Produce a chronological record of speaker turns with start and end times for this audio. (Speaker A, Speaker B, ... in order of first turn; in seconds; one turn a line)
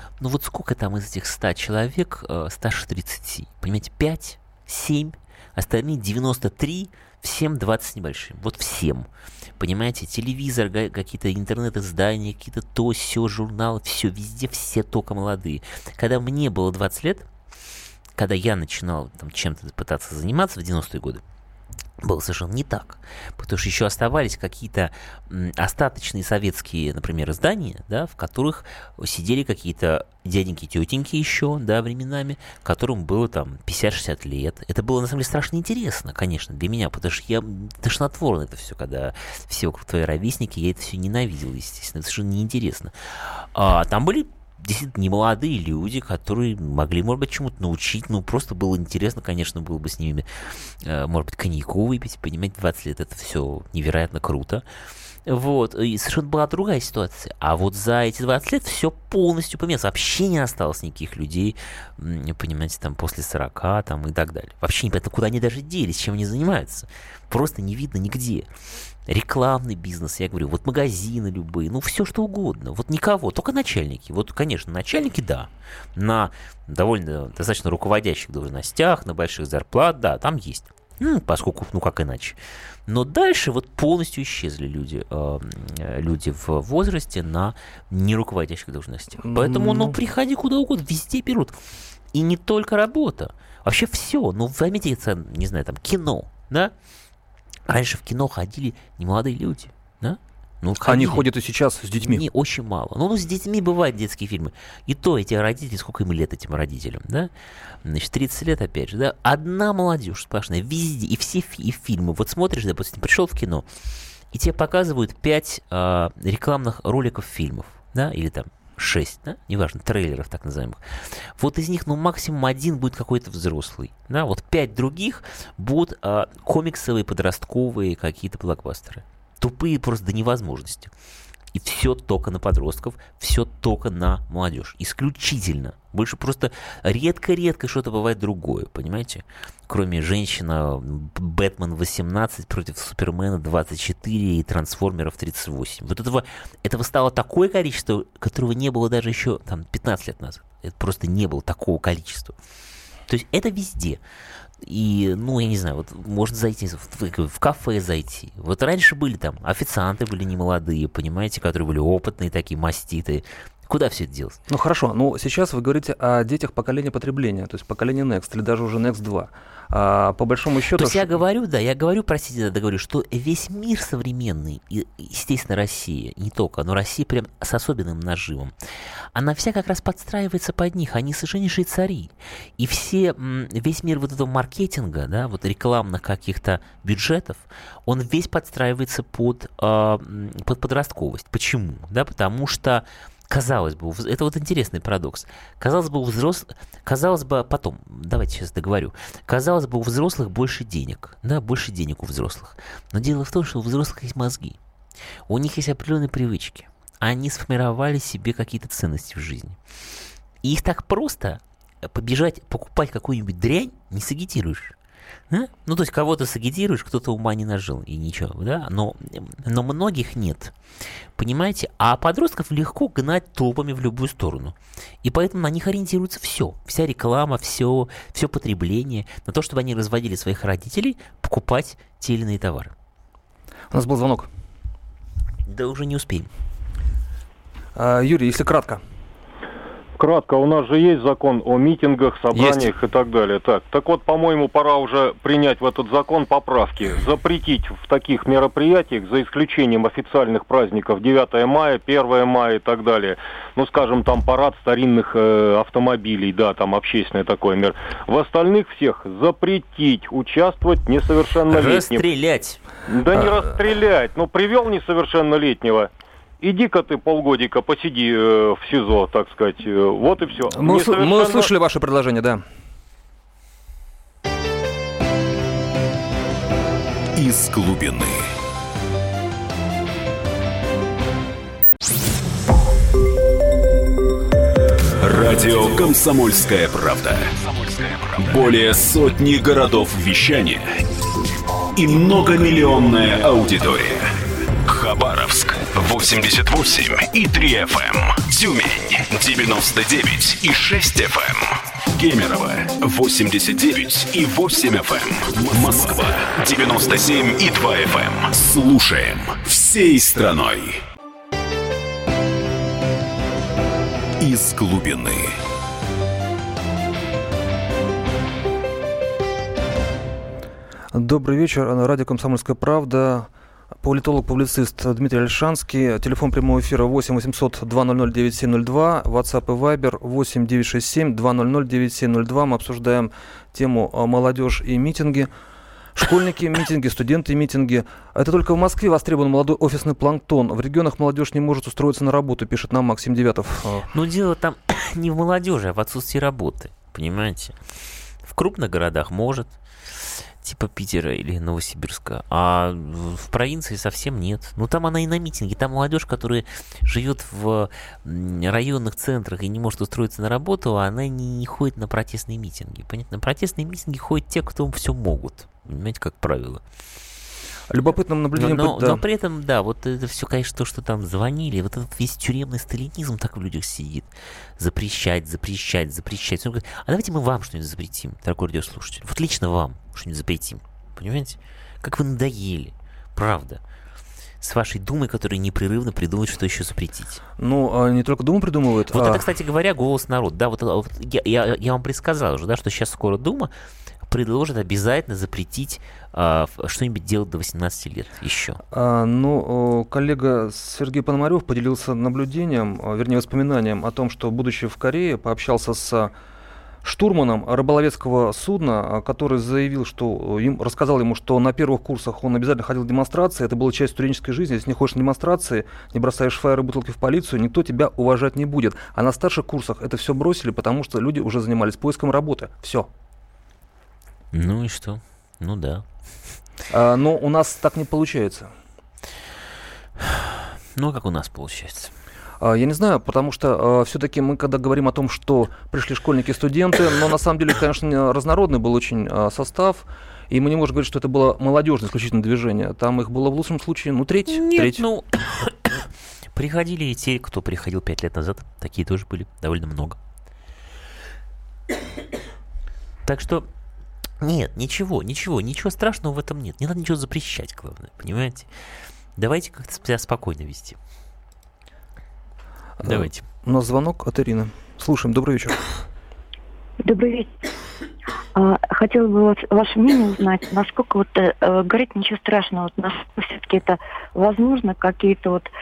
Speaker A: 0.2-17.3
Speaker A: 18.1-21.2
Speaker A: 22.0-42.9
Speaker A: 43.5-50.2
Speaker A: 50.8-54.6
Speaker A: 55.3-68.5
Speaker A: 69.1-91.6
Speaker B: 89.2-90.0
Speaker A: 92.1-96.7
Speaker A: 97.7-101.3
Speaker B: 100.8-102.2
Speaker A: 102.0-107.3
Speaker A: 107.8-113.7
Speaker A: 114.3-120.8
Speaker A: 121.4-130.9
Speaker A: 131.5-152.3
Speaker A: 153.1-154.0
Speaker A: 154.6-164.4
Speaker B: 164.5-171.2
Speaker A: 170.7-178.5
Speaker A: 179.1-204.6
Speaker A: 205.3-209.6
Speaker A: 210.4-214.8
Speaker A: 215.3-220.5
Speaker A: 221.2-232.7
Speaker B: 233.7-234.3
Speaker A: 235.5-236.3
Speaker B: 237.7-238.8
Speaker C: 240.0-262.1
Speaker B: 242.3-242.7
Speaker A: 261.5-262.6
Speaker C: 262.9-265.9
Speaker B: 263.1-263.4
Speaker C: 266.4-271.5
Speaker B: 270.5-272.4
Speaker D: 277.1-278.3
Speaker D: 285.0-290.7
Speaker D: 291.7-310.8
Speaker D: 314.2-315.4
Speaker B: 320.9-323.3
Speaker B: 323.8-335.3
Speaker B: 335.9-343.9
Speaker A: 343.9-347.6
Speaker A: 348.2-349.5
Speaker A: 350.4-366.6
Speaker B: 367.7-369.0
Speaker A: 368.4-383.6
Speaker A: 384.4-387.2
Speaker B: 387.4-389.2
Speaker A: 388.9-393.5
Speaker A: 394.1-398.6
Speaker B: 398.7-406.1
Speaker B: 406.8-422.9
Speaker A: 424.3-425.8
Speaker B: 426.7-428.5
Speaker A: 430.7-431.9
Speaker B: 432.4-444.8
Speaker A: 444.3-445.8
Speaker A: 446.3-450.0
Speaker A: 453.1-453.5
Speaker A: 454.2-458.5
Speaker A: 459.1-460.8
Speaker B: 462.8-465.6
Speaker A: 462.8-463.2
Speaker E: 466.8-467.3
Speaker E: 468.3-475.5